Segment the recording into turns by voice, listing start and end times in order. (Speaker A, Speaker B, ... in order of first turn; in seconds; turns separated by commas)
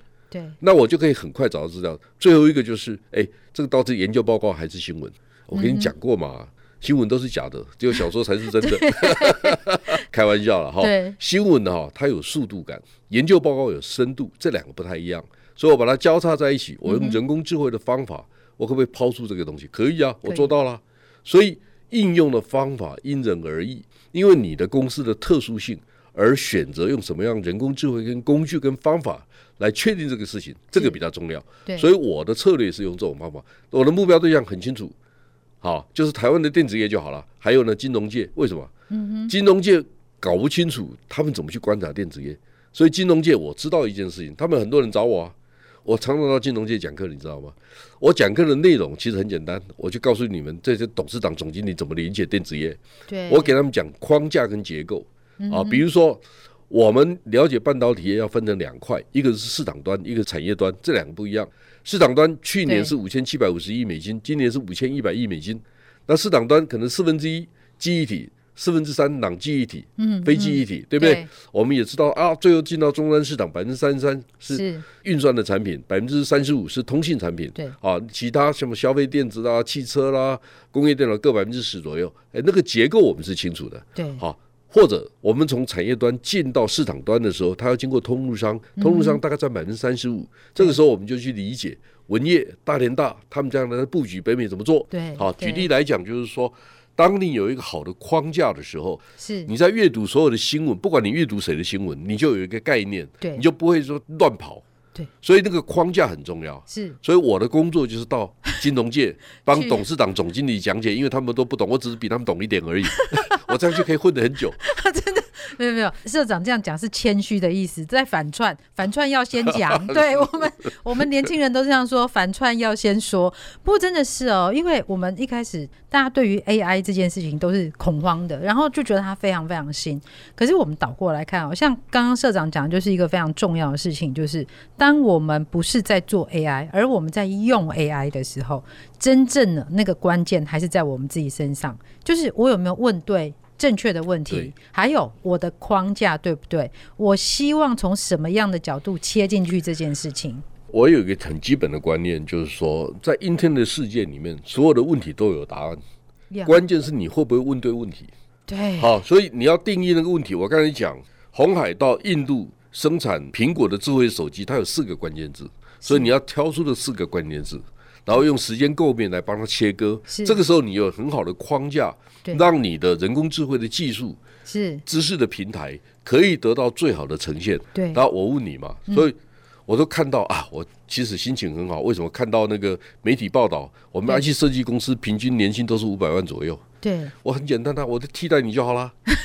Speaker A: 0.3-0.6, Speaker B: 0.6-34.9, Speaker A: 5.5-5.9, Speaker A: 8.6-10.0, Speaker A: 10.8-11.2, Speaker A: 16.9-17.2, Speaker B: 35.6-38.7, Speaker A: 38.9-39.3, Speaker B: 39.3-104.6, Speaker A: 53.1-53.5, Speaker A: 55.4-55.8, Speaker A: 62.6-62.9, Speaker A: 70.0-71.3, Speaker A: 74.5-74.8, Speaker A: 84.0-84.2, Speaker A: 88.8-89.2, Speaker A: 94.9-95.7, Speaker A: 99.2-99.5, Speaker B: 105.2-114.6, Speaker A: 106.7-107.0, Speaker A: 109.5-109.8, Speaker A: 112.9-113.5, Speaker A: 114.6-150.4, Speaker B: 119.5-120.2, Speaker B: 150.7-155.8, Speaker A: 156.3-156.6, Speaker B: 156.4-158.1, Speaker A: 158.5-158.9, Speaker B: 158.8-174.2, Speaker A: 165.8-166.1, Speaker A: 170.1-170.4, Speaker A: 174.5-174.8, Speaker B: 174.8-179.1, Speaker A: 177.7-178.0, Speaker B: 179.7-186.6, Speaker A: 186.8-187.1, Speaker B: 187.2-188.9